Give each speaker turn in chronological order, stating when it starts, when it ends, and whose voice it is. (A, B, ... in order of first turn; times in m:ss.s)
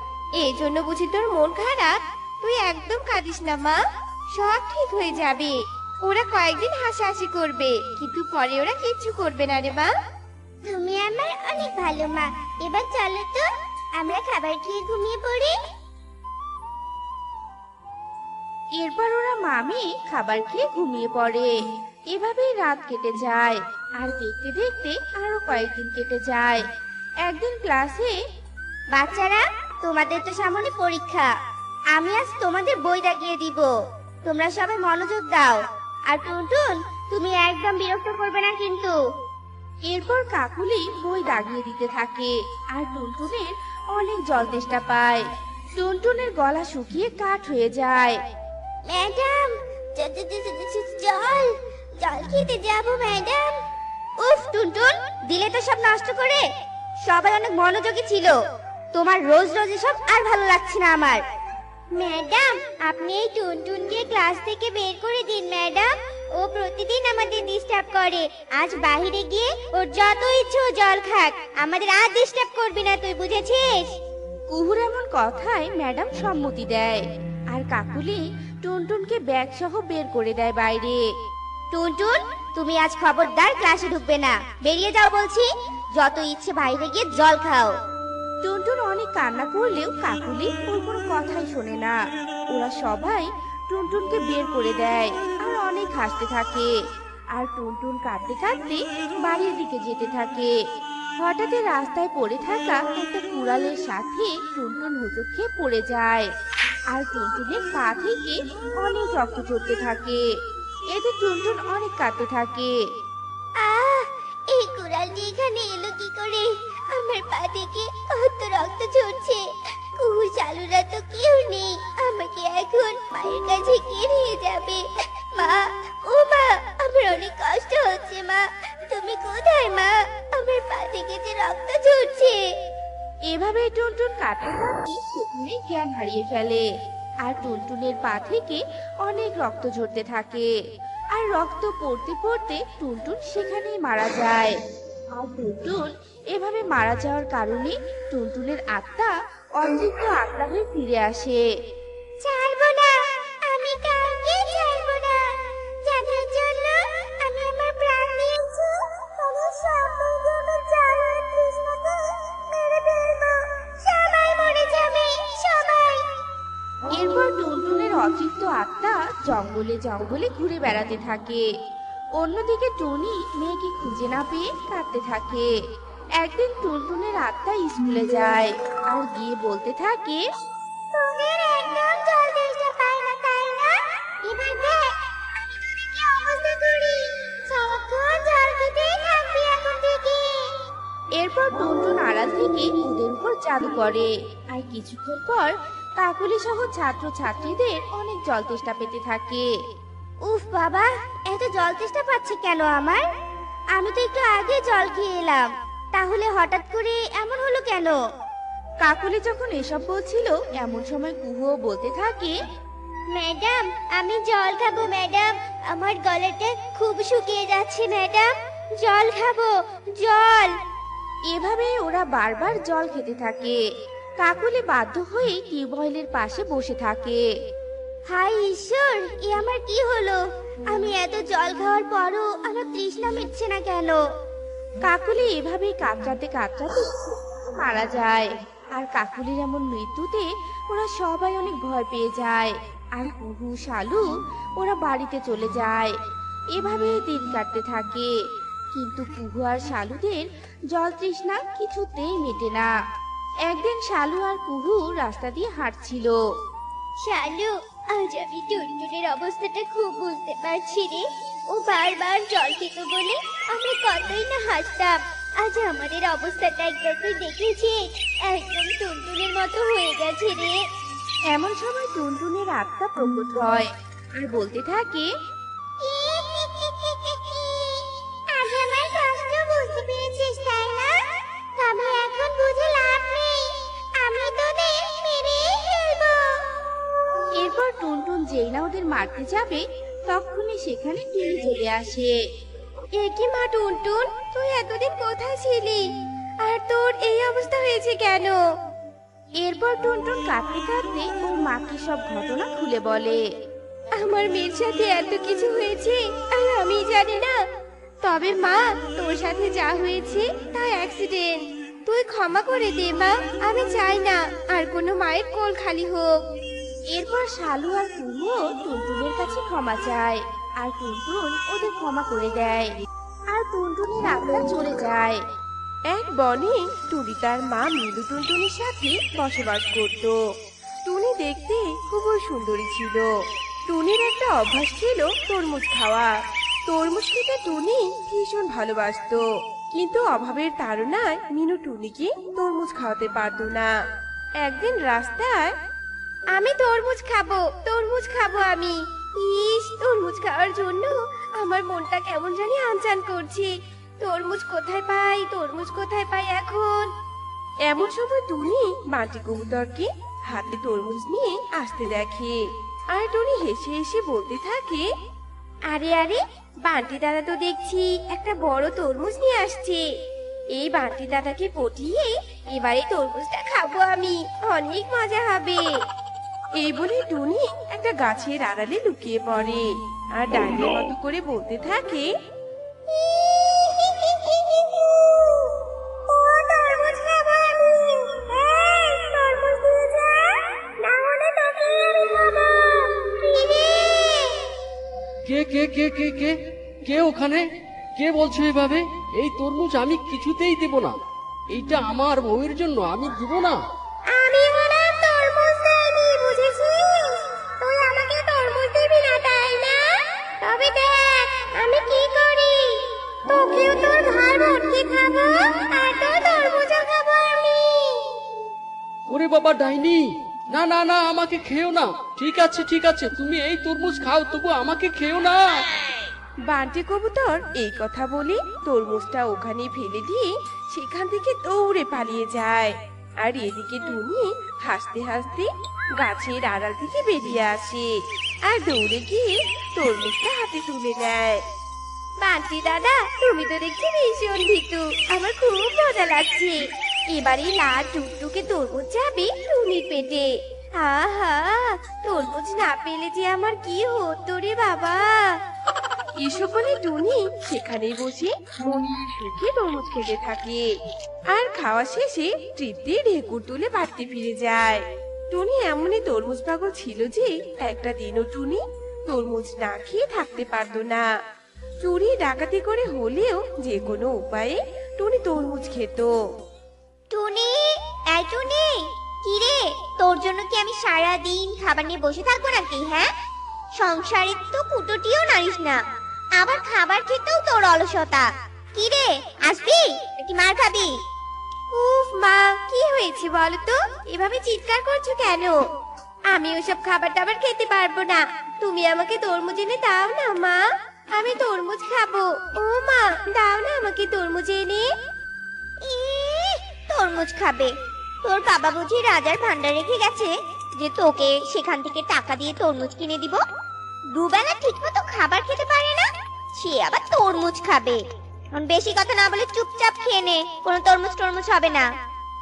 0:00.4-0:03.8 A
0:04.3-0:09.9 A
0:10.7-0:15.6 B
0:18.8-0:21.5 C
0:22.1-0:26.6 C
0:27.2-0:28.2 C
0:28.9-0:31.3 B
0:32.0-0:33.7 B
0:34.2-0:38.9 B
0:39.8-0:48.2 C
0:48.9-0:51.5 B
0:52.0-0:53.6 B
0:54.2-0:56.4 B
0:57.0-0:58.4 B
0:58.9-1:01.2 B
1:02.0-1:02.5 B
1:04.5-1:05.8 B
1:08.6-1:11.5 B
1:12.1-1:12.5 B
1:14.5-1:21.0 C
1:21.7-1:25.4 B
1:26.0-1:27.7 B
1:28.4-1:32.0 C
1:32.5-1:36.7 C
1:37.3-1:40.6 C
1:41.2-1:46.3 C
1:46.9-1:52.8 C
1:53.6-2:12.4 B
2:13.2-2:16.6 C
2:17.2-2:20.5 C
2:21.1-2:24.6 C
2:25.2-2:31.4 C
2:32.2-2:46.0 B
2:46.9-2:51.5 C
2:52.2-2:55.5 C
2:56.2-3:00.2 C
3:00.9-3:10.5 B
3:11.2-3:19.5 C
3:20.2-3:23.0 B
3:23.7-3:28.0 B
3:28.8-3:32.4 C
3:33.1-3:40.5 B
3:41.3-3:43.6 C
3:44.2-3:47.2 C
3:48.1-3:54.0 B
3:54.8-4:06.0 C
4:06.5-4:08.1 C
4:08.7-4:12.7 C
4:13.4-4:16.2 C
4:17.1-4:21.0 B
4:21.6-4:23.1 B
4:23.9-4:24.8 B
4:25.4-4:27.7 B
4:28.5-4:28.9 B
4:31.3-4:35.1 C
4:35.8-4:46.4 B
4:47.3-4:52.2 C
4:53.0-4:55.9 A
4:56.4-4:58.4 A
4:59.4-5:03.2 C
5:04.0-5:07.4 A
5:08.0-5:16.2 A
5:16.9-5:22.7 C
5:23.3-5:25.2 C
5:25.9-5:30.2 D
5:30.8-5:33.1 D
5:33.7-5:36.1 D
5:36.7-5:39.2 D
5:39.7-5:43.7 D
5:44.4-5:45.6 D
5:46.4-5:56.9 A
5:57.7-6:02.4 D
6:02.9-6:04.8 D
6:05.7-6:09.8 A
6:10.6-6:15.7 A
6:16.6-6:22.1 D
6:26.5-6:26.9 B
6:28.5-6:28.8 B
6:29.7-6:30.2 B
6:33.3-6:34.2 B
6:35.2-6:36.4 E
6:36.9-6:37.4 E
6:38.0-6:41.0 E
6:41.5-6:43.6 E
6:44.1-6:49.9 A
6:50.4-6:58.1 A
6:59.1-7:05.6 E
7:06.5-7:17.9 D
7:18.5-7:21.4 D
7:22.2-7:35.4 A
7:36.2-7:40.6 D
7:41.3-7:51.0 D
7:51.8-7:56.1 D
7:57.1-8:03.1 F
8:03.8-8:05.8 F
8:06.4-8:10.9 F
8:11.7-8:15.6 A
8:16.3-8:20.6 A
8:21.2-8:24.9 A
8:25.9-8:27.7 F
8:28.2-8:33.4 F
8:34.1-8:38.0 F
8:38.6-8:41.9 F